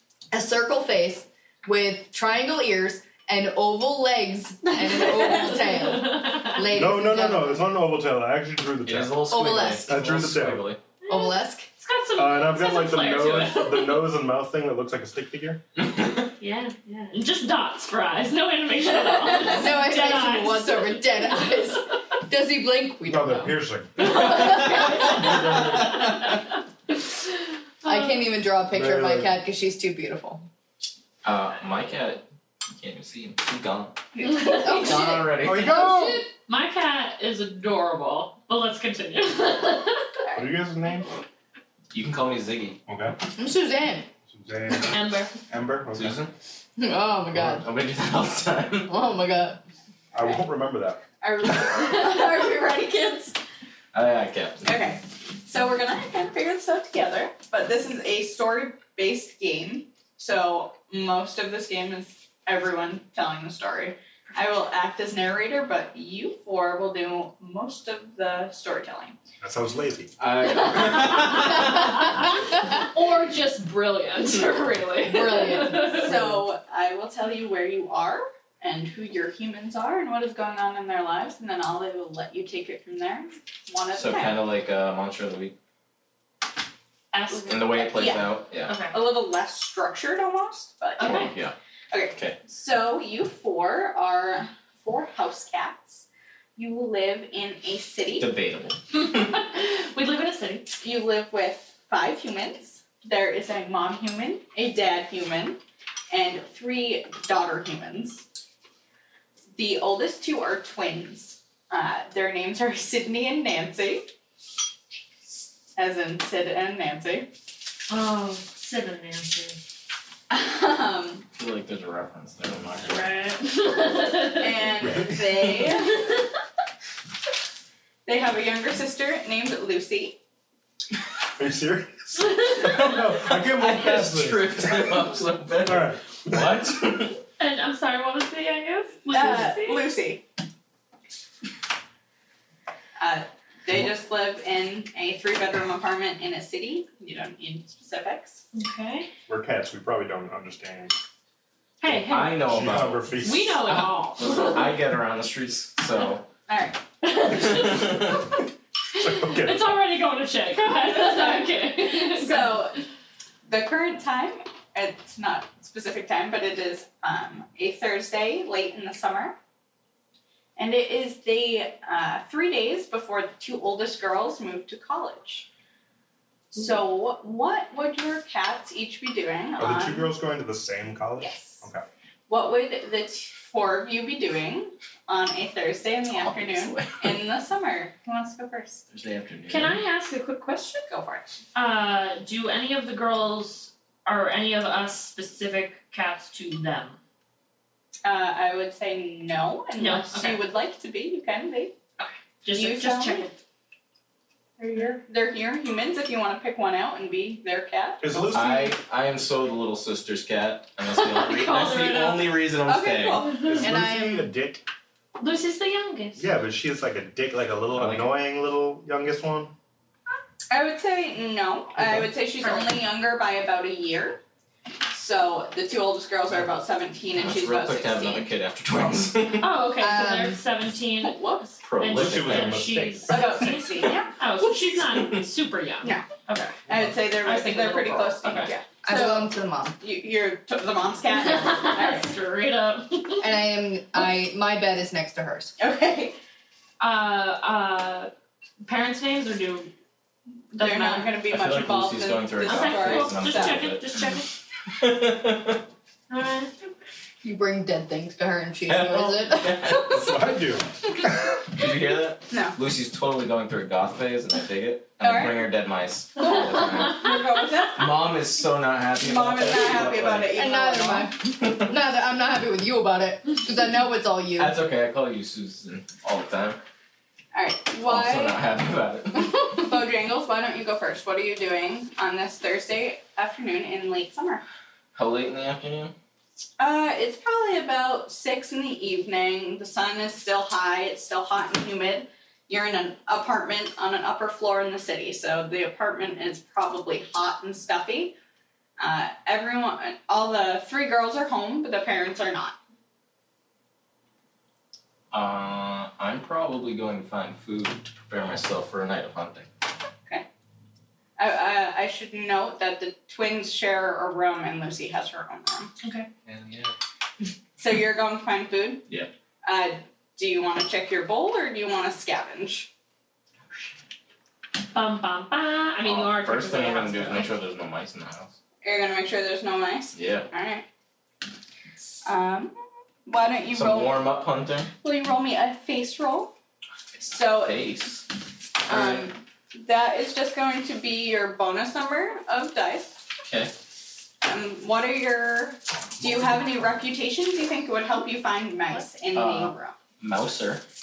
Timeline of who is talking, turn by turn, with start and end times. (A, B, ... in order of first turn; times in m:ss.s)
0:00.3-0:07.6 A
0:04.8-0:06.7 B
0:05.0-0:05.6 C
0:06.7-0:09.2 D
0:08.8-0:10.8 E
0:09.3-0:09.9 A
0:09.9-0:10.7 D
0:11.0-0:14.1 B
0:11.1-0:11.7 A
0:12.2-0:15.6 D
0:15.8-0:16.2 E
0:16.4-0:21.7 B
0:19.0-0:25.4 A
0:23.0-0:26.1 D
0:24.2-0:26.4 B
0:27.8-0:28.2 B
0:27.8-0:30.4 A
0:28.7-0:29.3 D
0:31.2-0:32.2 E
0:32.8-0:34.0 E
0:34.2-0:34.8 C
0:34.2-0:34.9 B
0:34.5-0:36.2 A
0:34.7-0:35.9 E
0:35.4-0:36.3 D
0:35.6-0:40.2 B
0:40.3-0:41.1 D
0:41.9-0:42.8 E
0:42.8-0:43.2 D
0:43.3-0:44.1 A
0:44.3-0:46.2 D
0:44.8-0:45.4 B
0:45.9-0:46.3 E
0:46.8-0:47.7 A
0:47.3-0:49.0 E
0:48.9-0:49.6 A
0:50.1-0:51.0 D
0:51.2-0:53.4 C
0:53.9-0:54.6 E
0:54.6-1:09.2 C
1:09.4-1:10.2 D
1:10.2-1:12.2 E
1:10.5-1:16.2 B
1:15.0-1:16.5 A
1:15.9-1:24.4 C
1:23.9-1:25.5 E
1:27.1-1:27.9 B
1:27.3-1:31.3 C
1:27.5-1:28.8 E
1:28.7-1:29.0 B
1:31.0-1:31.3 B
1:31.0-1:31.5 E
1:31.9-1:36.0 C
1:36.6-1:38.3 C
1:38.2-1:39.3 E
1:38.9-1:40.7 B
1:40.8-1:45.6 C
1:46.1-1:48.2 C
1:49.6-1:54.1 C
1:55.8-1:57.3 C
1:57.9-1:59.6 B
2:00.3-2:01.3 C
2:01.4-2:03.1 E
2:02.8-2:04.7 B
2:04.4-2:06.0 C
2:04.8-2:05.2 D
2:05.3-2:05.7 E
2:05.9-2:06.2 B
2:08.0-2:10.2 C
2:11.4-2:15.0 D
2:12.2-2:12.8 B
2:12.6-2:17.2 E
2:15.6-2:16.5 D
2:17.4-2:19.9 B
2:19.1-2:20.2 C
2:23.0-2:28.4 C
2:28.5-2:29.1 B
2:29.3-2:30.9 D
2:31.8-2:32.4 B
2:31.9-2:36.3 E
2:32.3-2:33.6 D
2:33.2-2:34.8 B
2:36.5-2:36.8 C
2:37.0-2:38.4 B
2:37.2-2:38.2 E
2:39.0-2:42.6 B
2:39.0-2:39.8 D
2:40.8-2:42.8 C
2:43.5-2:49.4 C
2:50.6-2:55.5 C
2:56.5-3:00.1 C
2:59.6-3:01.8 D
3:01.2-3:01.6 C
3:02.3-3:08.8 C
3:06.2-3:07.1 E
3:08.9-3:09.8 E
3:09.5-3:10.8 B
3:10.9-3:11.3 C
3:11.5-3:17.0 B
3:18.0-3:21.7 C
3:19.8-3:20.4 B
3:22.0-3:23.4 B
3:22.5-3:23.3 C
3:24.6-3:28.4 C
3:28.0-3:28.8 D
3:28.3-3:33.3 E
3:30.9-3:32.3 B
3:32.7-3:33.7 C
3:33.4-3:34.6 D
3:33.6-3:34.3 A
3:35.2-3:36.2 B
3:36.2-3:39.5 D
3:37.8-3:38.1 E
3:40.5-3:44.2 C
3:42.4-3:42.7 B
3:44.9-3:48.3 C
3:47.2-3:49.5 E
3:49.4-3:58.5 B
3:49.8-3:50.4 A
3:51.0-3:51.5 C
3:51.6-3:52.7 E
3:51.9-3:53.3 D
3:53.1-3:54.1 C
3:54.6-3:55.2 E
3:55.8-3:56.1 C
3:56.7-4:02.1 C
3:58.8-3:59.8 A
4:01.2-4:03.3 B
4:03.2-4:05.5 A
4:05.6-4:06.2 C
4:06.8-4:08.1 B
4:08.6-4:09.7 B
4:10.5-4:11.2 B
4:10.5-4:13.6 C
4:11.3-4:14.1 E
4:12.4-4:14.3 B
4:14.7-4:15.6 E
4:16.1-4:16.5 B
4:17.2-4:19.9 A
4:18.6-4:20.2 E
4:19.9-4:21.4 D
4:21.5-4:27.0 E
4:22.3-4:22.6 C
4:25.0-4:25.5 C
4:26.2-4:27.9 C
4:27.8-4:30.3 E
4:29.0-4:31.1 C
4:30.3-4:34.5 A
4:34.4-4:36.6 E
4:37.3-4:38.4 C
4:37.8-4:39.5 E
4:39.6-4:44.4 C
4:44.9-4:46.0 E
4:46.6-4:58.1 C
4:58.8-5:02.6 C
5:05.1-5:09.5 E
5:11.2-5:15.7 C
5:15.8-5:16.1 B
5:16.2-5:16.7 E
5:17.6-5:18.8 C
5:19.4-5:22.7 C
5:24.7-5:27.4 B
5:25.8-5:28.3 E
5:28.6-5:30.6 C
5:30.0-5:30.3 E
5:32.0-5:34.1 C
5:33.5-5:34.7 E
5:34.8-5:36.3 C
5:36.9-5:38.1 E
5:37.0-5:37.8 C
5:38.6-5:39.1 E
5:38.6-5:43.0 C
5:43.2-5:43.5 E
5:44.2-5:49.8 C
5:49.1-5:50.6 E